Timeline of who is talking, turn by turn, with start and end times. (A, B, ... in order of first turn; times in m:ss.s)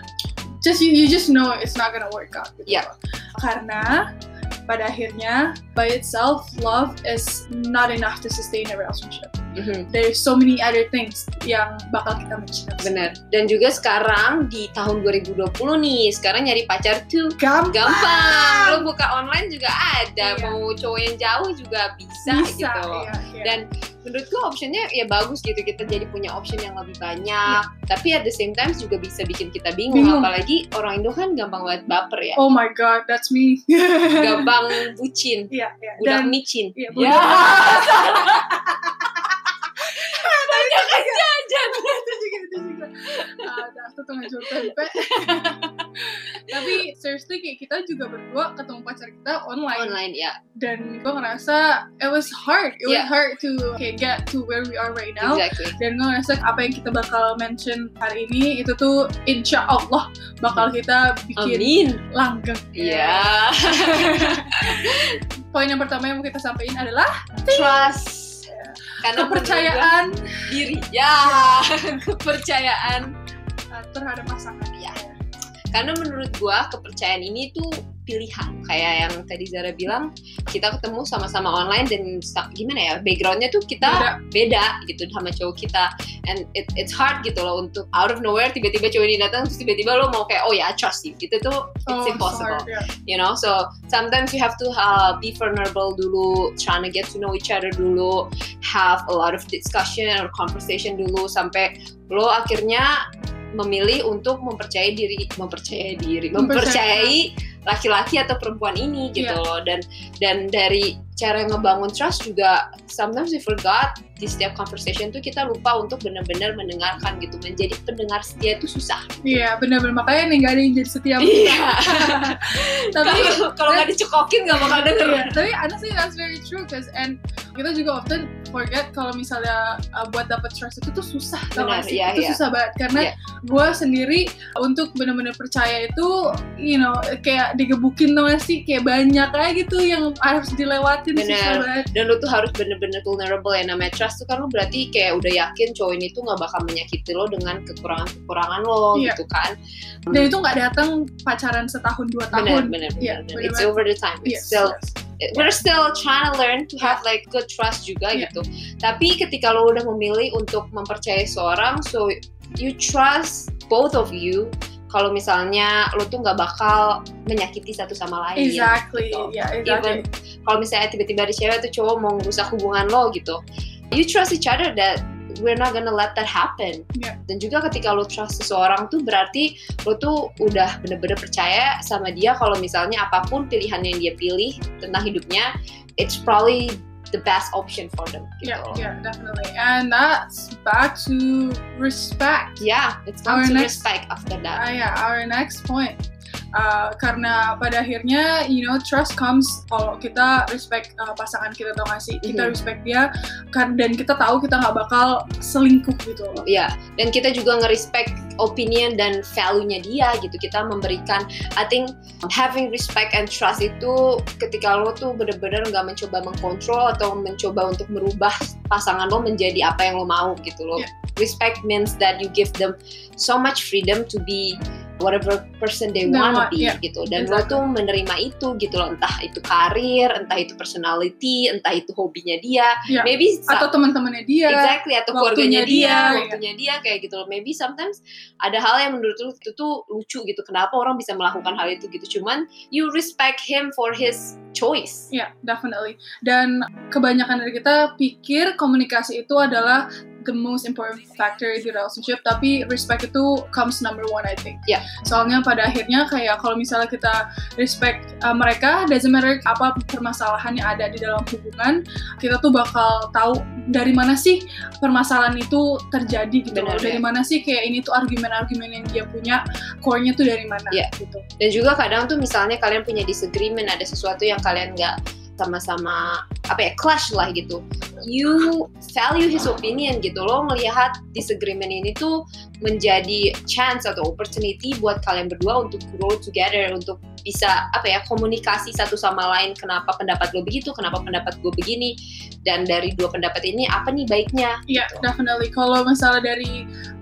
0:00.6-0:04.0 A
0:04.7-0:09.4 A
0:09.6-0:09.9 B
0:09.9-0:13.0 A
0:12.8-0:32.4 B
0:17.4-0:18.8 A
0:20.2-0:20.6 A
0:22.3-0:23.6 A
0:29.9-0:30.3 A
0:32.4-0:34.5 A
0:34.2-0:38.4 B
0:35.5-0:50.0 A
0:40.1-0:42.2 B
0:43.2-0:43.5 B
0:44.4-0:45.6 B
0:49.8-0:50.4 B
0:50.6-1:07.9 A
0:52.9-0:53.1 B
0:55.2-0:55.8 B
1:01.4-1:02.0 B
1:02.8-1:05.1 B
1:07.5-1:08.5 B
1:08.5-1:10.4 A
1:09.0-1:10.0 B
1:10.5-1:13.1 B
1:11.2-1:11.7 A
1:13.7-1:15.2 A
1:15.7-1:42.9 B
1:23.8-1:24.2 A
1:31.9-1:32.9 A
1:43.6-1:59.4 B
1:46.4-1:47.2 A
1:49.2-1:49.4 A
1:59.2-2:03.9 A
2:01.2-2:05.4 B
2:04.5-2:21.9 A
2:11.6-2:12.4 B
2:21.1-2:29.5 B
2:28.9-2:29.2 A
2:30.1-2:35.5 A
2:32.3-2:53.4 B
2:48.4-2:50.0 A
2:53.9-3:08.8 B
3:08.4-3:12.6 A
3:12.6-3:14.6 B
3:13.3-3:13.8 A
3:14.6-3:16.0 A
3:16.6-3:26.5 A
3:22.2-3:22.5 B
3:26.4-3:53.7 B
3:46.0-3:47.6 A
3:52.9-3:56.4 A
3:54.5-4:05.1 B
4:05.1-4:31.2 A
4:26.5-4:27.0 B
4:30.7-4:51.9 B
4:52.5-4:55.0 B
4:54.7-4:56.7 A